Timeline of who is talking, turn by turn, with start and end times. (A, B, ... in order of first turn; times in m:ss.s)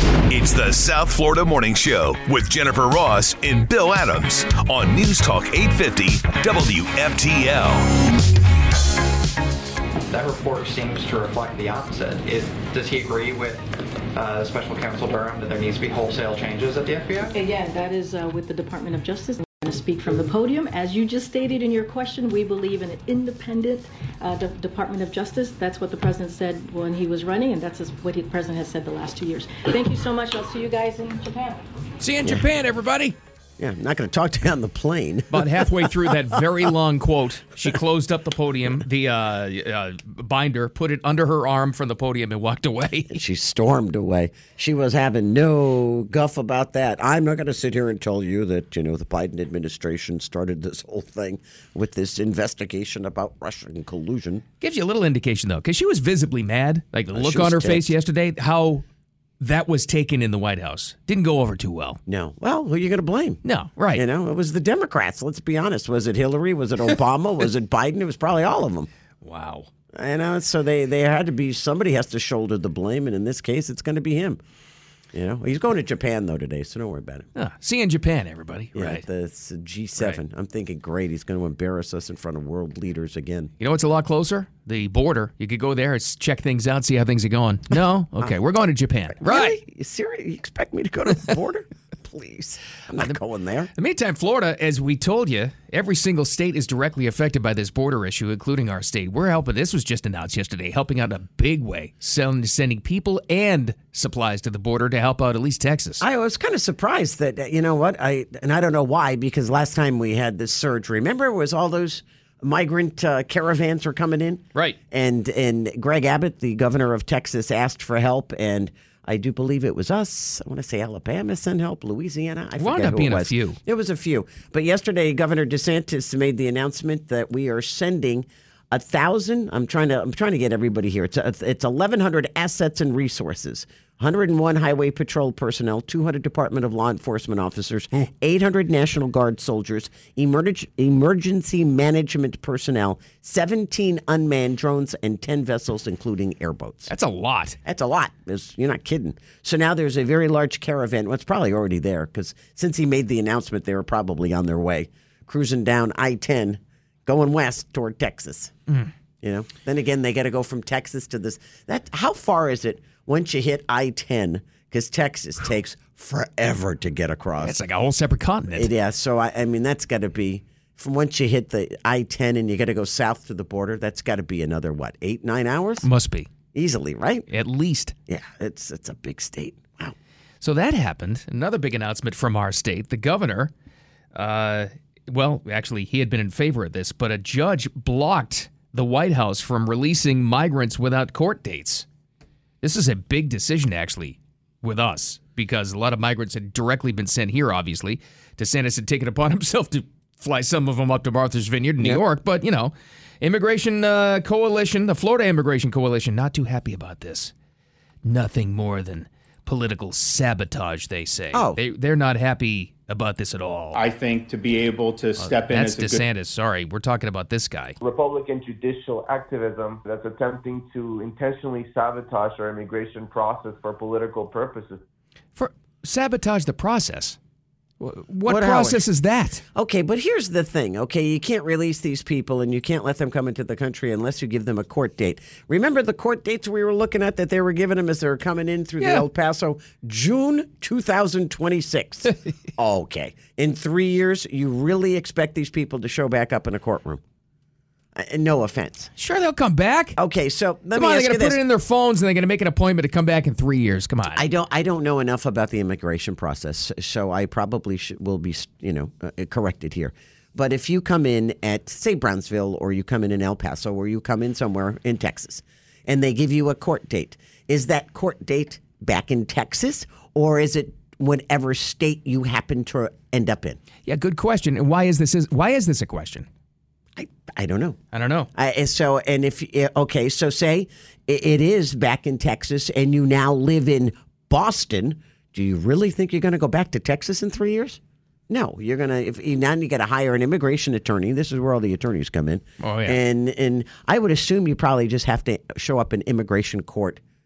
0:00.3-0:08.0 A
0:10.1-0:17.4 B
0:17.3-0:31.6 C
0:32.0-0:33.2 D
0:33.6-0:36.4 E
0:35.3-0:43.2 D
0:43.1-0:54.4 E
0:54.6-0:58.8 D
0:57.1-0:57.9 E
0:59.4-1:02.0 D
1:02.1-1:03.4 E
1:03.4-1:04.0 D
1:03.9-1:08.9 E
1:09.2-1:09.7 D
1:09.9-1:14.4 E
1:15.1-1:17.3 E
1:17.4-1:19.0 D
1:18.8-1:23.5 E
1:23.6-1:29.6 D
1:29.2-1:33.7 E
1:33.8-1:46.0 D
1:46.0-2:26.9 E
2:02.6-2:03.6 D
2:26.9-2:27.6 D
2:27.6-2:38.5 E
2:39.2-2:47.6 E
2:47.4-2:48.7 D
2:48.5-2:55.9 E
2:55.8-2:56.3 D
2:56.5-2:57.3 E
2:57.3-2:57.9 D
2:58.1-3:00.0 E
3:00.4-3:03.5 D
3:04.1-3:11.9 D
3:12.6-3:27.3 D
3:28.0-3:33.8 D
3:31.3-3:31.6 E
3:33.7-3:36.0 F
3:35.2-3:37.8 D
3:37.8-3:44.8 G
3:45.4-3:47.2 D
3:47.8-3:49.4 D
3:48.3-3:48.8 E
3:49.6-4:07.0 E
3:58.8-3:59.1 D
4:08.0-4:08.9 E
4:09.0-4:10.0 D
4:10.0-4:11.4 E
4:10.8-4:14.2 D
4:14.1-4:33.6 E
4:33.8-4:36.3 D
4:37.0-4:37.8 E
4:37.9-4:38.3 D
4:38.4-4:57.0 E
4:52.6-4:53.0 D